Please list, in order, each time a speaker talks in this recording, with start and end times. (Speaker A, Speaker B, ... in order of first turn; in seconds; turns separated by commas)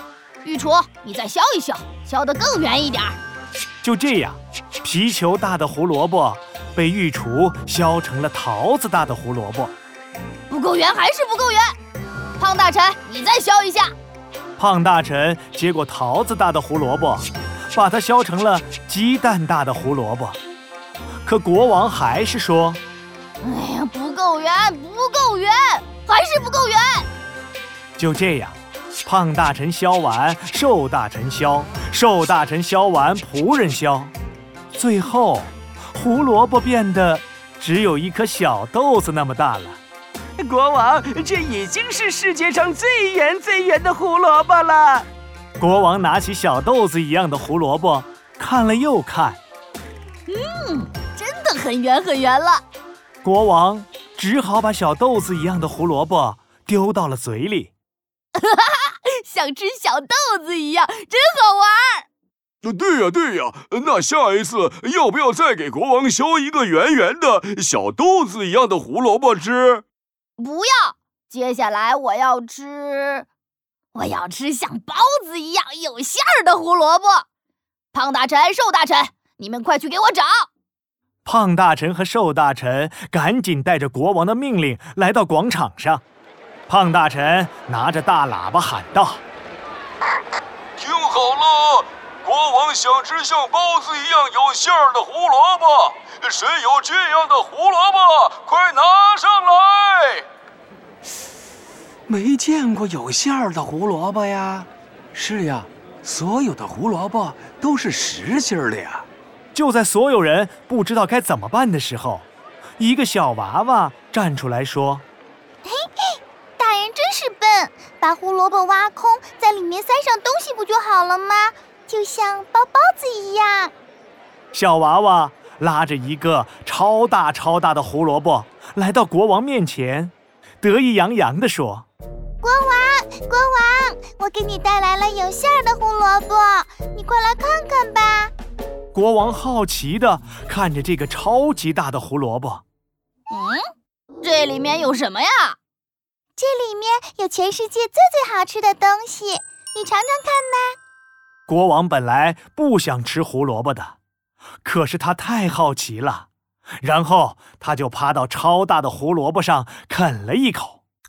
Speaker A: 0.4-3.2, Speaker B: 3.8-9.7, Speaker A: 10.5-11.7, Speaker A: 12.4-13.9, Speaker B: 14.6-20.4, Speaker B: 21.2-22.8, Speaker A: 23.4-27.1, Speaker B: 28.0-34.1, Speaker B: 34.7-39.8, Speaker C: 40.4-45.1, Speaker B: 45.6-49.4, Speaker A: 50.3-52.6, Speaker B: 53.2-57.7, Speaker A: 58.4-62.0, Speaker D: 62.6-69.8, Speaker A: 70.4-73.2, Speaker A: 73.9-77.2, Speaker A: 77.9-80.3, Speaker B: 81.2-86.0, Speaker B: 86.7-89.2, Speaker D: 90.8-100.2, Speaker C: 102.1-109.0, Speaker B: 109.5-112.2, Speaker B: 112.8-115.0, Speaker E: 115.6-123.7, Speaker B: 124.5-131.9, Speaker E: 132.4-138.3, Speaker B: 138.9-142.6, Speaker A: 143.3-143.6, Speaker A: 144.2-145.6, Speaker E: 146.4-150.8, Speaker B: 151.5-153.9, Speaker B: 154.6-156.3, Speaker B: 156.8-160.8